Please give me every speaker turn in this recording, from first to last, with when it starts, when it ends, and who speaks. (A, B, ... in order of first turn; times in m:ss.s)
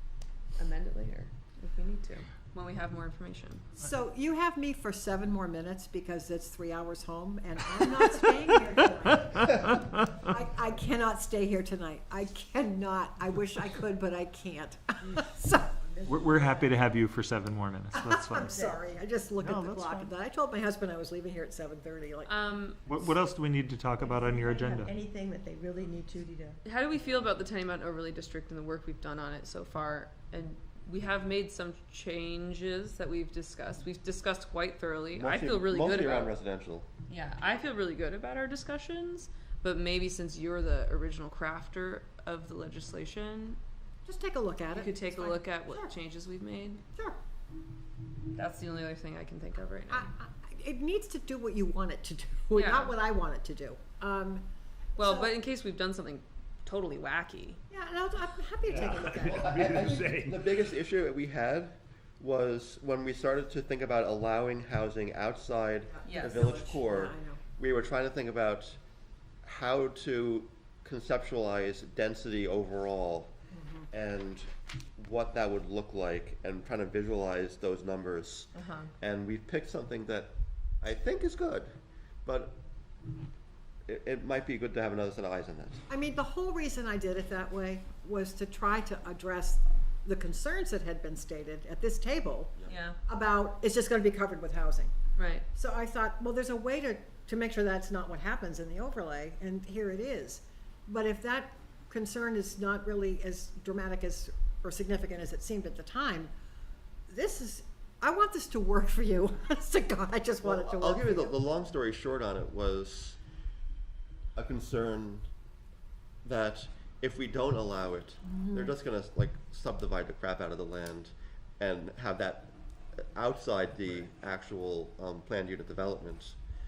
0:00.6-0:03.6 A
0:03.8-0:15.7 B
0:15.0-0:16.9 C
0:16.1-0:18.6 D
0:17.9-0:22.4 B
0:18.4-0:18.8 C
0:19.4-0:20.1 D
0:22.3-0:22.8 A
0:22.9-0:24.9 D
0:24.0-0:26.6 C
0:26.6-0:36.3 A
0:35.1-0:36.9 E
0:37.1-0:43.6 A
0:44.0-0:45.9 B
0:44.7-0:46.8 A
0:48.3-0:50.1 A
0:49.9-0:54.4 B
0:52.5-0:53.0 A
0:55.0-0:57.6 A
0:55.0-0:55.3 B
0:57.7-0:59.5 B
0:58.7-1:00.4 D
0:59.2-1:08.8 E
1:06.0-1:07.4 B
1:06.1-1:06.4 A
1:09.4-1:13.3 E
1:13.5-1:13.9 B
1:13.9-1:21.7 E
1:18.6-1:18.9 A
1:22.2-1:22.6 E
1:23.9-1:25.8 E
1:25.9-1:32.6 B
1:32.7-1:33.0 A
1:33.1-1:34.9 B
1:35.2-1:35.5 A
1:35.5-1:46.3 B
1:47.1-1:51.4 B
1:50.4-1:53.2 E
1:54.4-1:55.3 E
1:56.2-2:02.5 E
1:58.3-1:58.7 B
2:03.1-2:06.4 E